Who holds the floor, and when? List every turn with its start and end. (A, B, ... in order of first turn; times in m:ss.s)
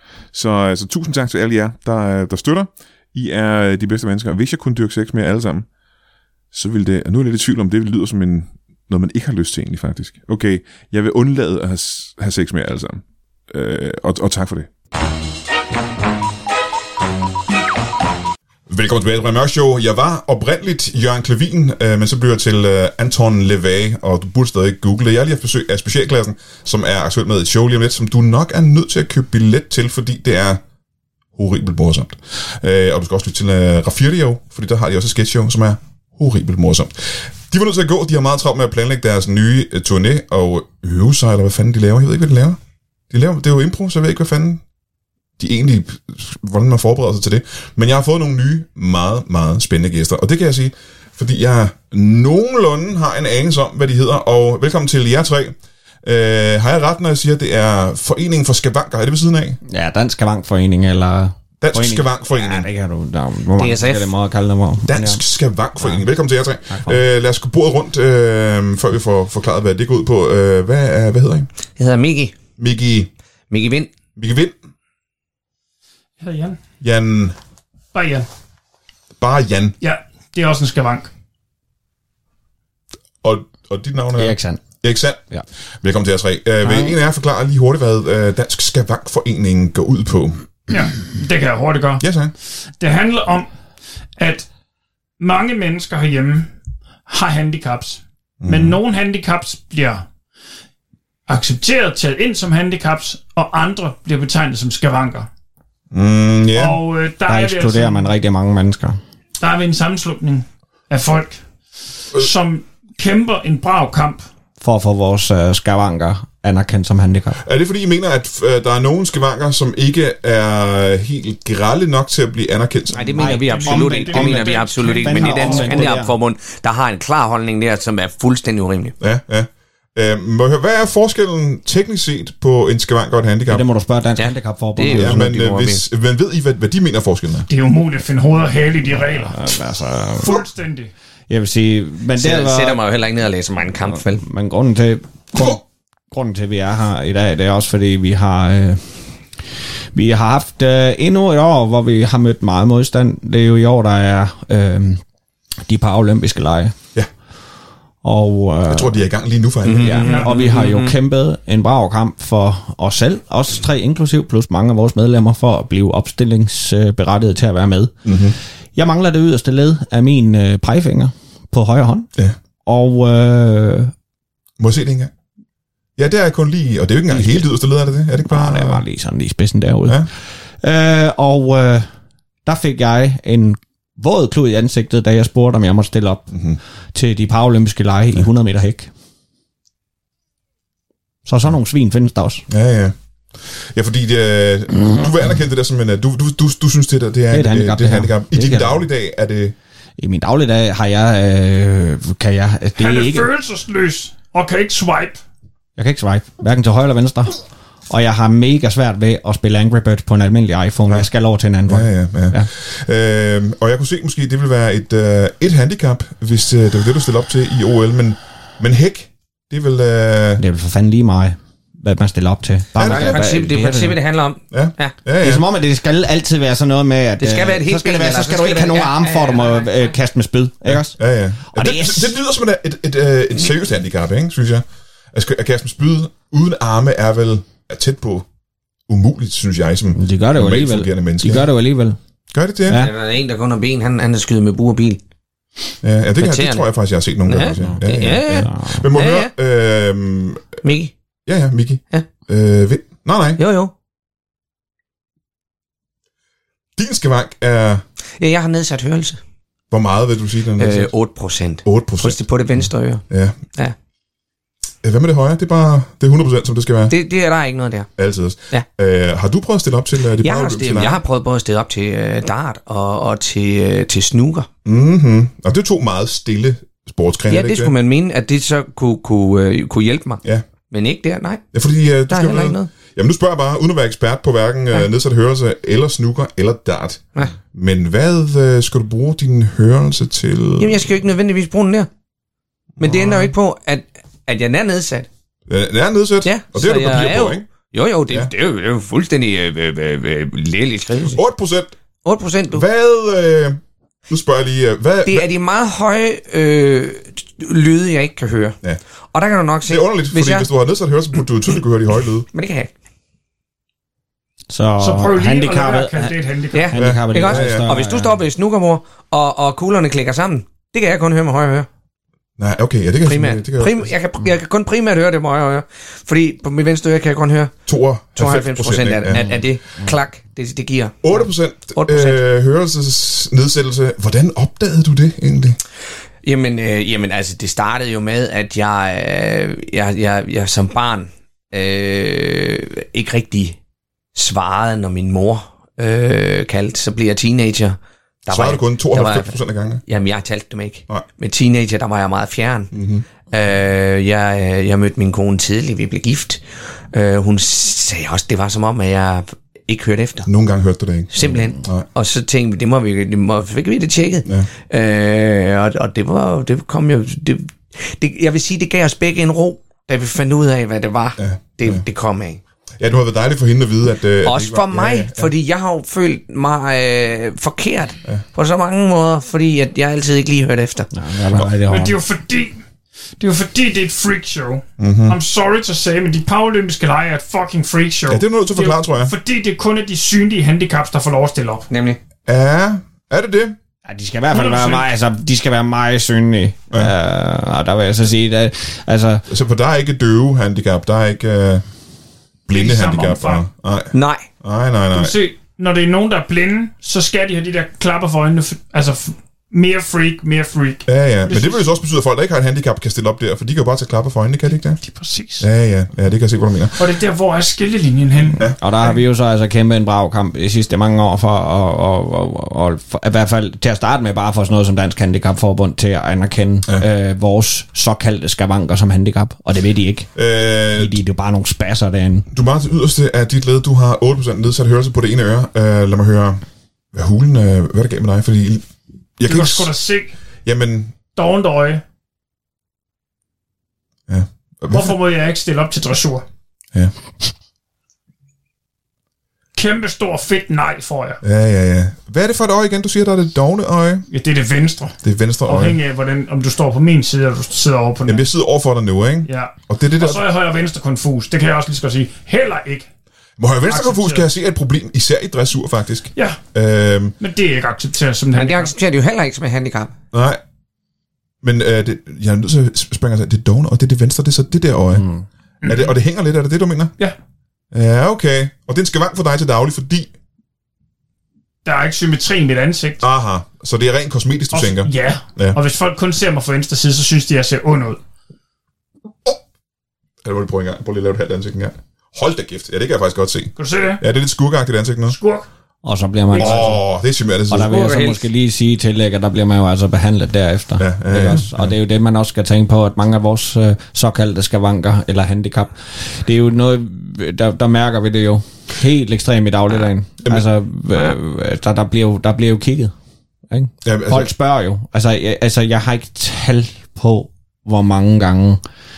0:00.3-0:05.7 A
0:06.5-0:14.7 A
0:18.7-0:30.6 A
0:31.4-0:42.6 A
0:43.1-0:44.6 A
0:45.4-0:59.6 A
0:59.7-1:05.2 B
1:01.6-1:02.7 A
1:03.6-1:04.1 C
1:04.9-1:11.5 A
1:06.7-1:07.0 B
1:11.8-1:12.4 C
1:12.6-1:13.1 A
1:13.5-1:13.9 C
1:14.2-1:14.6 A
1:16.2-1:16.6 D
1:16.8-1:17.4 A
1:17.9-1:18.3 D
1:19.2-1:19.8 A
1:19.8-1:21.1 D
1:23.2-1:25.2 A
1:24.2-1:24.6 B
1:25.8-1:30.5 A
1:26.6-1:27.0 B
1:30.7-1:32.0 D
1:32.0-1:32.3 A
1:32.8-1:33.5 D
1:34.2-1:34.5 D
1:35.2-1:36.5 D
1:37.1-1:40.0 D
1:38.4-1:38.8 A
1:41.3-1:45.3 D
1:45.9-1:46.8 A
1:46.6-1:48.1 D
1:47.3-1:49.0 B
1:49.4-1:51.4 D
1:52.1-1:54.2 D
1:54.6-1:57.4 B
1:57.4-2:03.4 A
2:02.9-2:09.0 C
2:03.2-2:06.1 B
2:03.4-2:06.0 D
2:09.0-2:13.6 A
2:13.5-2:15.3 B
2:14.2-2:15.8 C
2:14.9-2:17.5 A
2:17.5-2:19.5 D
2:19.2-2:20.4 B
2:20.2-2:20.9 D
2:21.3-2:22.8 B
2:22.2-2:24.2 C
2:23.9-2:29.0 B
2:29.9-2:35.0 B
2:35.6-2:36.8 B
2:38.0-2:39.0 B
2:38.7-2:40.1 A
2:39.6-2:41.0 C
2:39.7-2:48.1 B
2:40.0-2:40.4 D
2:48.0-2:48.4 A
2:48.8-2:52.1 B
2:52.6-2:53.9 B
2:54.6-2:55.1 A
2:56.0-2:58.8 A
2:57.1-2:57.5 B
2:58.3-3:00.1 B
3:00.6-3:01.9 B
3:02.4-3:06.3 B
3:06.3-3:06.6 A
3:06.9-3:08.9 B
3:11.3-3:12.4 B
3:12.5-3:19.5 A
3:17.3-3:18.8 B
3:20.0-3:23.3 B
3:22.8-3:25.2 D
3:25.8-3:32.5 B
3:31.7-3:40.4 A
3:40.4-3:44.0 B
3:42.8-3:43.3 A
3:42.8-3:45.0 C
3:44.5-3:45.4 A
3:45.2-3:51.0 B
3:47.2-3:49.7 C
3:50.7-3:58.3 A
3:51.5-3:52.2 B
3:58.9-4:01.5 A
4:00.0-4:02.0 B
4:02.3-4:02.8 A
4:02.7-4:02.9 B
4:02.7-4:05.0 C
4:05.8-4:10.6 A
4:06.2-4:06.6 C
4:07.3-4:09.3 C
4:07.6-4:08.8 B
4:10.6-4:10.9 C
4:11.3-4:13.4 A
4:13.4-4:13.7 C
4:16.8-4:17.8 A
4:18.2-4:19.2 C
4:19.7-4:20.9 A
4:20.6-4:23.0 C
4:21.6-4:22.2 A
4:23.1-4:23.4 A
4:24.8-4:27.0 A
4:26.9-4:27.9 C
4:28.0-4:31.0 A
4:30.2-4:34.5 C
4:34.6-4:37.7 A
4:37.3-4:41.4 C
4:41.5-4:50.9 A
4:42.1-4:42.7 C
4:50.6-4:51.9 C
4:52.8-4:53.3 A
4:52.8-4:55.1 C
4:55.5-4:57.5 A
4:56.2-5:01.2 C
5:01.1-5:01.7 A
5:02.0-5:02.6 C
5:02.5-5:05.3 A
5:05.0-5:08.6 C
5:09.1-5:10.5 C
5:09.7-5:12.3 A
5:12.3-5:12.7 C
5:14.5-5:18.2 B
5:14.8-5:16.8 D
5:16.5-5:21.7 C
5:16.8-5:17.7 A
5:22.4-5:23.9 A
5:23.0-5:27.6 C
5:27.7-5:29.3 A
5:28.2-5:32.2 C
5:29.1-5:29.4 B
5:31.0-5:35.6 A
5:36.2-5:43.6 C
5:44.2-5:49.3 C
5:48.3-5:49.8 A
5:49.8-5:52.7 C
5:52.7-5:53.0 A
5:53.3-6:00.3 C
6:00.3-6:01.9 A
6:01.1-6:12.4 C
6:11.2-6:11.8 A
6:12.8-6:15.3 A
6:14.2-6:20.9 C
6:20.9-6:22.0 B
6:21.7-6:22.6 D
6:23.2-6:31.7 D
6:24.8-6:25.2 A
6:28.1-6:29.1 A
6:31.7-6:32.0 C
6:32.3-6:33.6 A
6:33.8-6:39.2 B
6:34.3-6:34.9 D
6:39.3-6:41.6 A
6:42.5-6:45.2 A
6:42.5-6:43.4 D
6:43.9-6:44.3 C
6:44.9-6:51.7 D
6:50.9-6:54.8 A
6:54.8-6:55.5 D
6:55.4-6:56.9 A
6:56.8-6:58.4 D
6:58.6-7:10.1 B
7:10.2-7:11.0 A
7:10.8-7:12.3 B
7:12.3-7:18.6 A
7:19.2-7:19.7 A
7:19.3-7:20.2 D
7:20.4-7:20.9 A
7:21.2-7:21.8 D
7:24.1-7:25.0 A
7:24.7-7:26.2 D
7:29.6-7:31.2 D
7:31.2-7:34.0 A
7:34.1-7:38.3 D
7:35.0-7:35.8 A
7:38.1-7:40.2 A
7:39.3-7:42.9 D
7:43.4-7:47.2 A
7:43.7-7:44.3 D
7:47.2-7:48.8 D
7:48.3-7:49.9 C
7:50.1-7:50.4 A
7:51.4-7:55.1 A
7:55.0-7:55.2 B
7:55.6-7:55.9 D
7:55.6-7:56.9 A
7:57.7-8:00.1 A
8:01.6-8:03.0 D
8:03.0-8:05.6 A
8:04.5-8:08.0 D
8:10.2-8:15.2 A
8:13.6-8:14.0 D
8:15.1-8:15.5 D
8:15.8-8:16.8 B
8:16.3-8:16.7 D
8:16.4-8:17.8 A
8:17.5-8:32.9 B
8:17.6-8:18.2 C
8:20.8-8:21.7 A
8:33.5-8:38.6 B
8:33.8-8:34.3 A